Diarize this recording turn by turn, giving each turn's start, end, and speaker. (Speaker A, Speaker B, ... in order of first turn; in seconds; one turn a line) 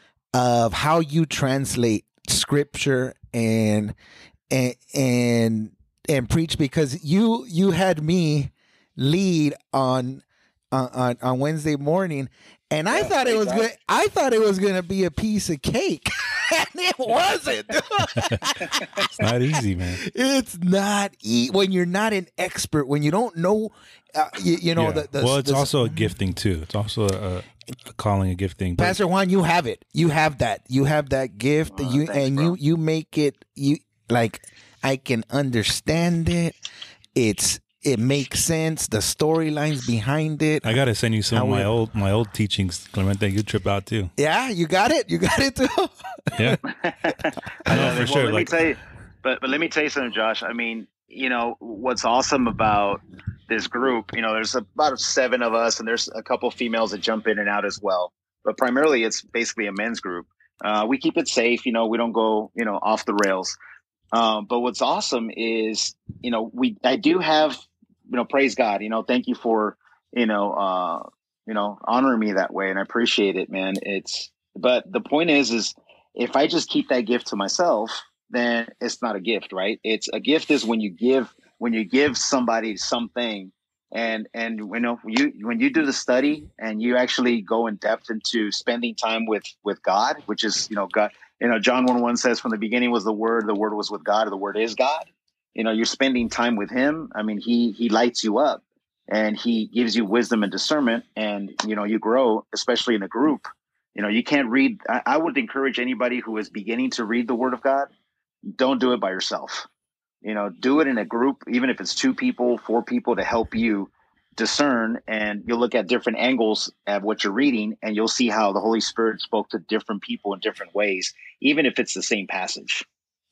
Speaker A: 0.3-3.9
Speaker A: 4.5-19.3
Speaker B: 12.9-13.7
Speaker C: 18.1-18.5
Speaker C: 19.1-20.0
Speaker A: 19.9-26.1
Speaker C: 24.7-29.0
Speaker A: 28.8-36.5
Speaker B: 31.7-32.5
Speaker A: 37.1-40.7
Speaker C: 40.6-44.1
Speaker A: 41.3-41.7
Speaker A: 44.2-46.6
Speaker C: 46.3-46.6
Speaker B: 46.6-63.6
Speaker C: 47.7-48.5
Speaker B: 64.1-103.4
Speaker B: 103.9-107.9
Speaker B: 108.5-109.7
Speaker B: 110.2-122.8